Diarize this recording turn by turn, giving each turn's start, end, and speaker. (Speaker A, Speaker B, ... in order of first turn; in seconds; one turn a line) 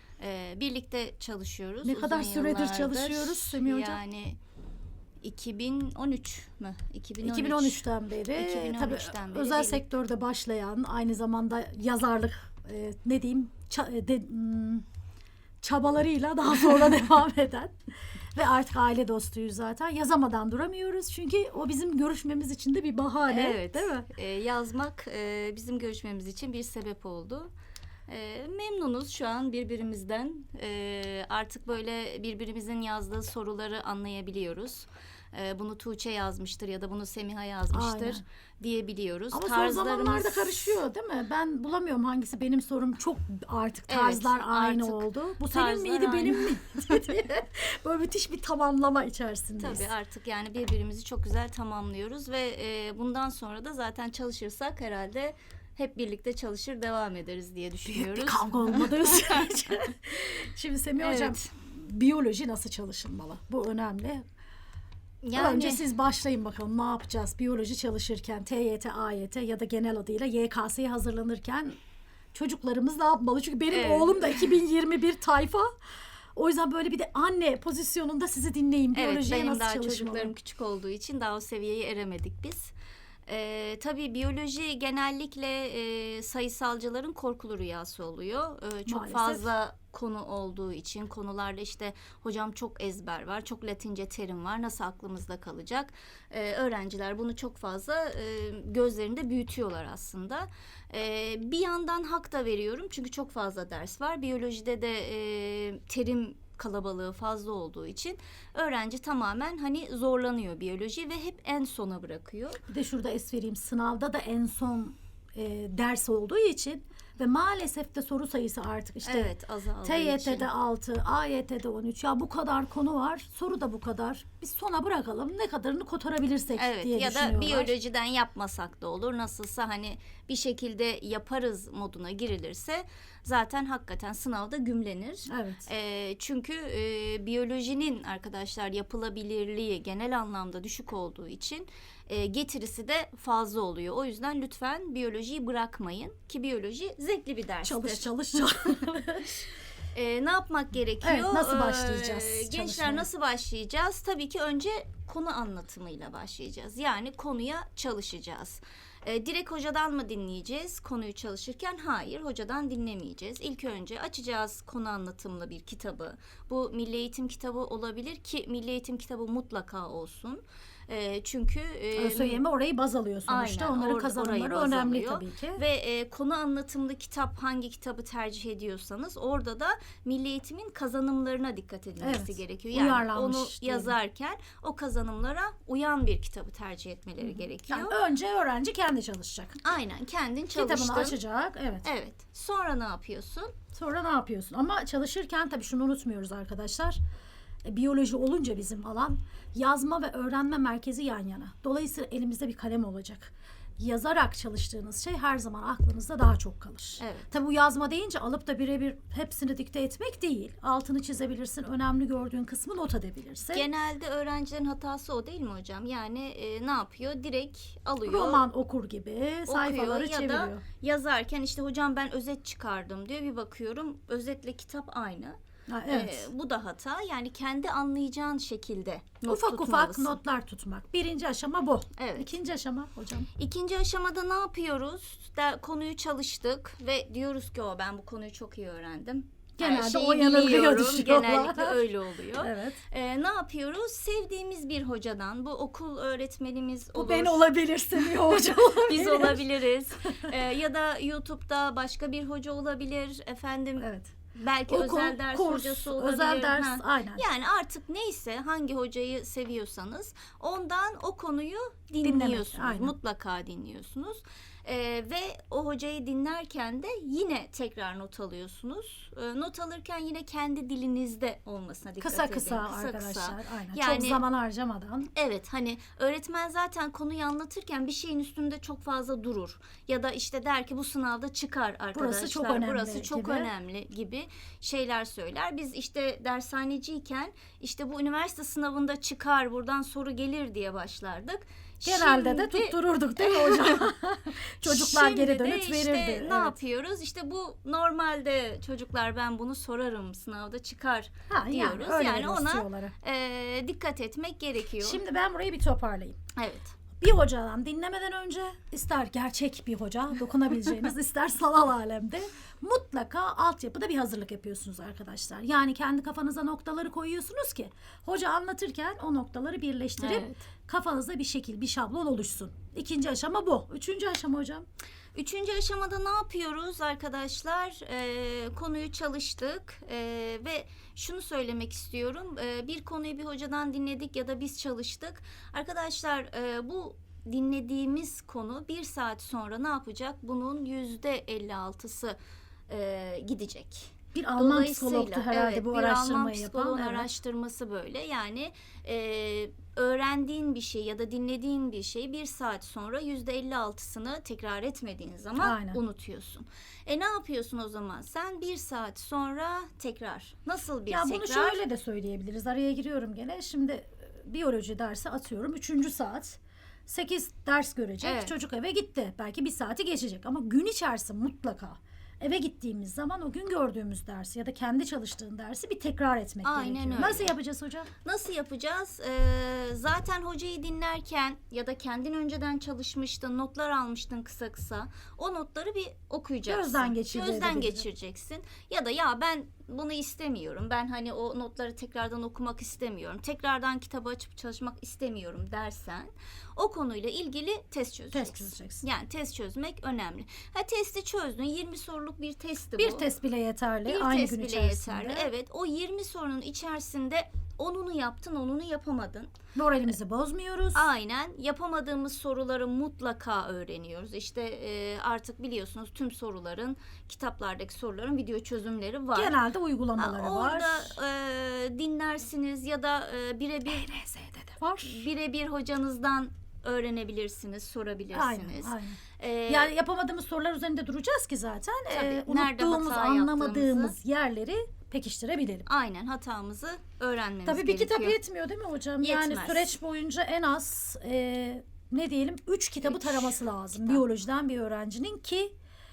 Speaker A: 0.2-4.4
Speaker B: 1.8-4.0
Speaker A: 5.2-9.9
Speaker B: 7.2-14.8
Speaker B: 15.6-17.8
Speaker B: 18.3-24.1
Speaker A: 23.3-27.5
Speaker A: 28.1-40.8
Speaker B: 37.7-38.2
Speaker B: 39.3-49.9
Speaker A: 43.9-47.2
Speaker A: 49.6-59.5
Speaker B: 57.9-64.2
Speaker A: 61.0-61.5
Speaker A: 65.2-65.9
Speaker B: 65.3-71.8
Speaker B: 72.3-75.7
Speaker A: 73.7-74.5
Speaker B: 76.3-80.3
Speaker A: 78.9-82.7
Speaker A: 83.3-112.6
Speaker B: 88.9-89.5
Speaker B: 112.7-119.3
Speaker A: 119.0-120.5
Speaker B: 119.8-127.7
Speaker A: 126.5-148.1
Speaker B: 135.3-135.7
Speaker B: 147.6-149.4
Speaker A: 149.9-172.4
Speaker B: 151.0-153.1
Speaker B: 171.9-175.6
Speaker A: 173.3-188.0
Speaker B: 182.0-183.9
Speaker B: 187.2-189.6
Speaker A: 189.6-191.2
Speaker B: 190.5-191.9
Speaker A: 191.8-193.5
Speaker B: 193.7-197.0
Speaker B: 197.6-213.7
Speaker A: 207.0-207.3
Speaker A: 213.5-218.4
Speaker B: 218.0-220.6
Speaker A: 219.5-230.2
Speaker B: 225.7-226.3
Speaker B: 229.2-233.3
Speaker A: 232.0-232.3
Speaker A: 233.4-274.2
Speaker B: 239.6-241.8
Speaker B: 242.4-242.8
Speaker B: 246.9-249.4
Speaker B: 253.8-254.1
Speaker B: 254.7-257.2
Speaker B: 262.0-262.9
Speaker B: 272.0-275.1
Speaker A: 275.1-293.9
Speaker B: 281.9-283.5
Speaker B: 291.8-296.6
Speaker A: 294.6-305.0
Speaker B: 301.3-302.9
Speaker B: 304.8-306.2
Speaker A: 306.4-306.7
Speaker B: 307.0-324.7
Speaker A: 320.0-320.5
Speaker A: 325.1-342.2
Speaker A: 342.7-361.6
Speaker B: 344.1-347.1
Speaker B: 355.4-355.8
Speaker B: 360.9-377.9
Speaker A: 368.0-368.3
Speaker A: 376.4-377.3
Speaker A: 378.0-403.1
Speaker B: 386.5-387.9
Speaker B: 398.1-398.8
Speaker B: 402.8-405.3
Speaker A: 403.9-409.3
Speaker B: 409.5-410.9
Speaker A: 410.7-419.4
Speaker B: 419.1-421.0
Speaker A: 420.0-423.9
Speaker B: 423.7-425.1
Speaker A: 424.8-429.7
Speaker B: 428.1-435.6
Speaker A: 431.9-433.9
Speaker A: 435.7-438.2
Speaker B: 437.4-445.5
Speaker A: 439.0-439.8
Speaker A: 442.8-444.0